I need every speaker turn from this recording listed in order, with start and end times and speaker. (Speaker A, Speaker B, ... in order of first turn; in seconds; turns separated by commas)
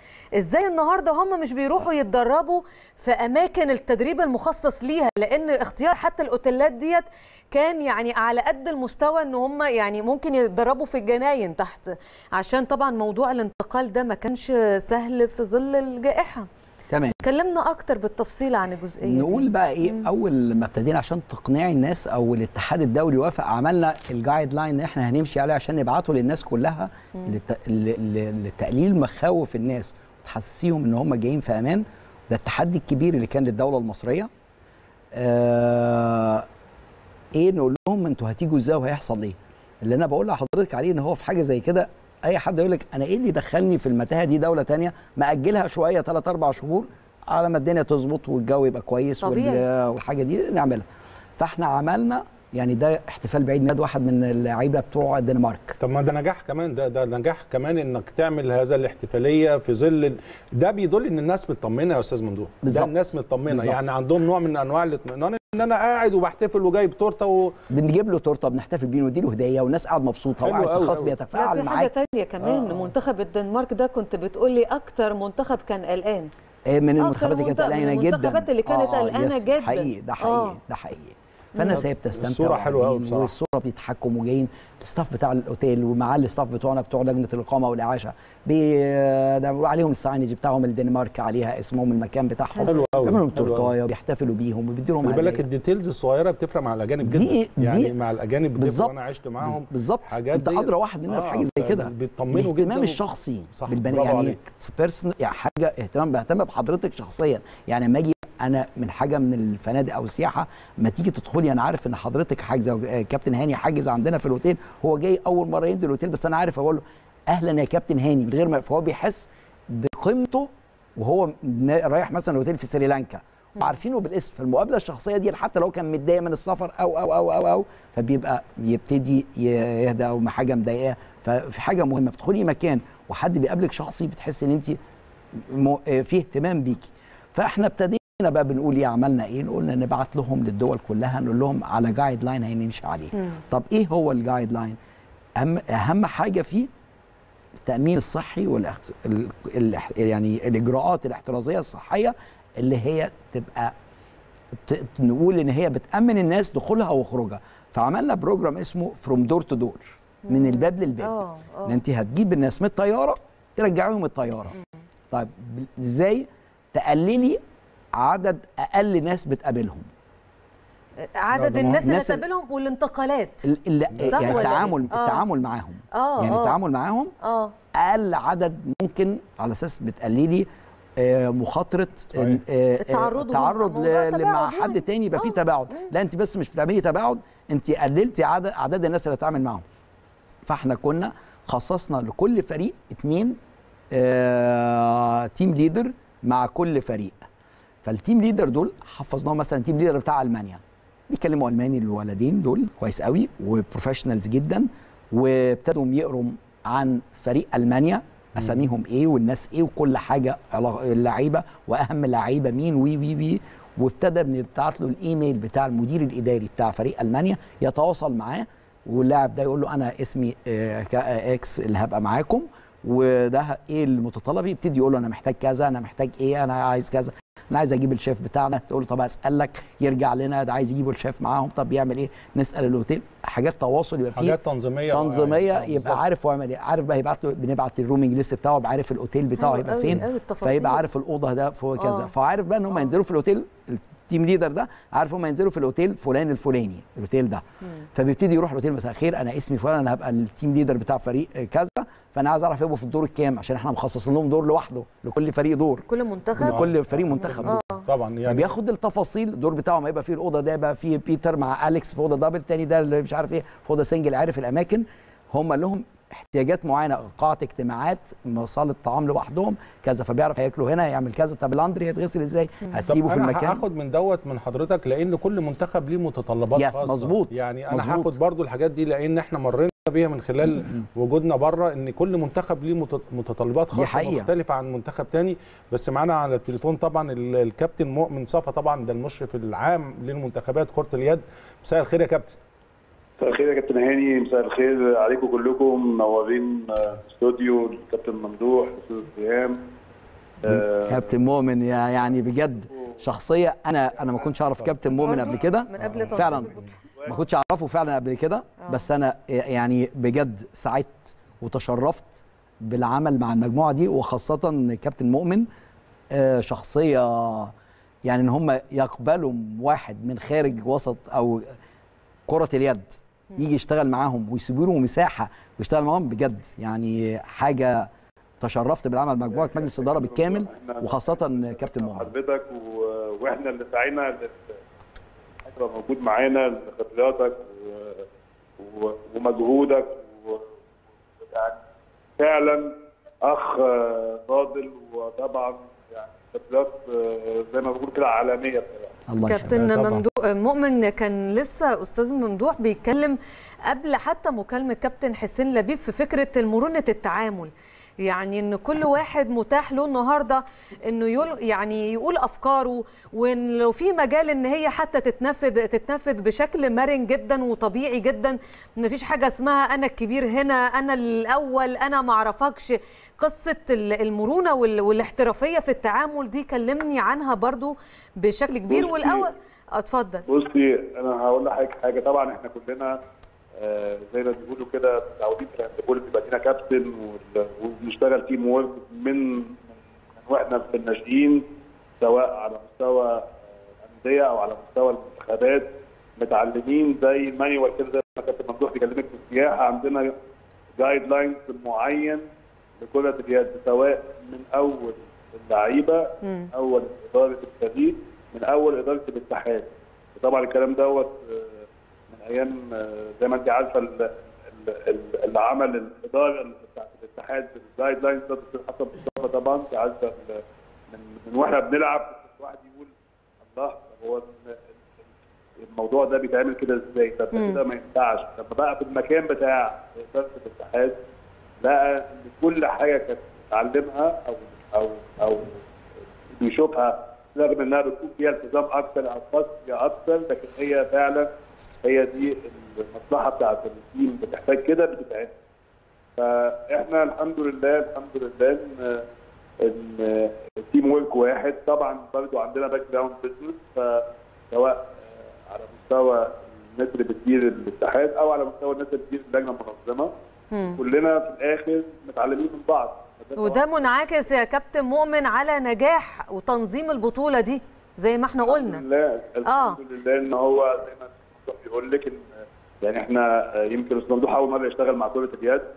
Speaker A: 0.4-16.5, Speaker B: 16.9-17.2, Speaker A: 17.2-20.1, Speaker B: 19.0-34.3, Speaker B: 35.1-36.5, Speaker B: 37.3-50.9, Speaker A: 49.2-49.6, Speaker B: 51.4-55.8, Speaker C: 55.8-67.5, Speaker B: 62.6-63.0, Speaker B: 63.5-63.8, Speaker B: 67.7-72.0, Speaker C: 70.4-71.1, Speaker A: 71.3-76.3, Speaker B: 76.7-95.4, Speaker A: 77.0-80.6, Speaker C: 81.8-83.3, Speaker A: 92.6-93.0, Speaker C: 92.6-93.7, Speaker C: 95.0-103.0, Speaker B: 97.0-97.9, Speaker B: 98.6-134.8, Speaker C: 103.6-104.4, Speaker B: 135.3-144.8, Speaker B: 145.4-146.7, Speaker B: 147.7-153.7, Speaker B: 154.6-164.5, Speaker A: 160.3-161.8, Speaker B: 165.1-167.4, Speaker B: 167.9-169.9, Speaker A: 171.2-173.4, Speaker C: 171.4-171.8, Speaker B: 171.7-172.2, Speaker B: 173.4-177.1, Speaker C: 173.9-174.8, Speaker A: 174.1-175.2, Speaker A: 175.9-176.6, Speaker A: 177.2-177.5, Speaker B: 177.7-189.6, Speaker C: 182.1-182.4, Speaker A: 182.8-185.9, Speaker B: 190.5-193.4, Speaker B: 193.9-197.2, Speaker B: 197.8-234.4, Speaker C: 234.1-236.0, Speaker B: 234.9-247.4, Speaker A: 239.4-240.8, Speaker A: 241.8-242.1, Speaker B: 247.9-255.8, Speaker A: 255.9-256.6, Speaker B: 256.4-257.6, Speaker C: 256.4-258.5, Speaker A: 257.2-257.8, Speaker B: 258.3-273.6, Speaker C: 272.9-292.4, Speaker B: 276.6-278.1, Speaker B: 280.4-280.9, Speaker B: 283.7-284.3, Speaker D: 293.2-299.6, Speaker D: 300.4-301.2, Speaker B: 300.5-306.5, Speaker D: 302.7-303.0, Speaker A: 305.0-306.7, Speaker C: 305.8-306.6, Speaker D: 307.0-307.2, Speaker B: 307.1-315.5, Speaker B: 316.1-317.5, Speaker B: 318.1-321.5, Speaker B: 322.3-327.9, Speaker B: 328.4-332.1, Speaker D: 329.3-334.6, Speaker D: 335.4-338.1, Speaker D: 338.6-340.6, Speaker D: 341.2-341.6, Speaker D: 342.2-348.9, Speaker B: 349.1-349.6, Speaker A: 349.3-380.2, Speaker C: 349.5-350.0, Speaker D: 378.7-379.3, Speaker D: 380.3-383.0, Speaker D: 383.6-389.6, Speaker D: 390.2-391.4, Speaker D: 392.0-393.3, Speaker D: 393.9-400.1, Speaker D: 400.8-402.3, Speaker D: 402.8-422.9, Speaker A: 406.2-406.5, Speaker D: 423.4-424.6, Speaker D: 425.6-431.0, Speaker A: 427.3-427.6, Speaker D: 431.6-435.6, Speaker D: 436.4-441.3, Speaker D: 441.8-445.3, Speaker D: 446.2-449.1, Speaker D: 449.6-460.1, Speaker A: 460.5-460.8, Speaker D: 460.8-463.7, Speaker A: 463.4-468.8, Speaker D: 468.4-475.7, Speaker A: 469.4-469.8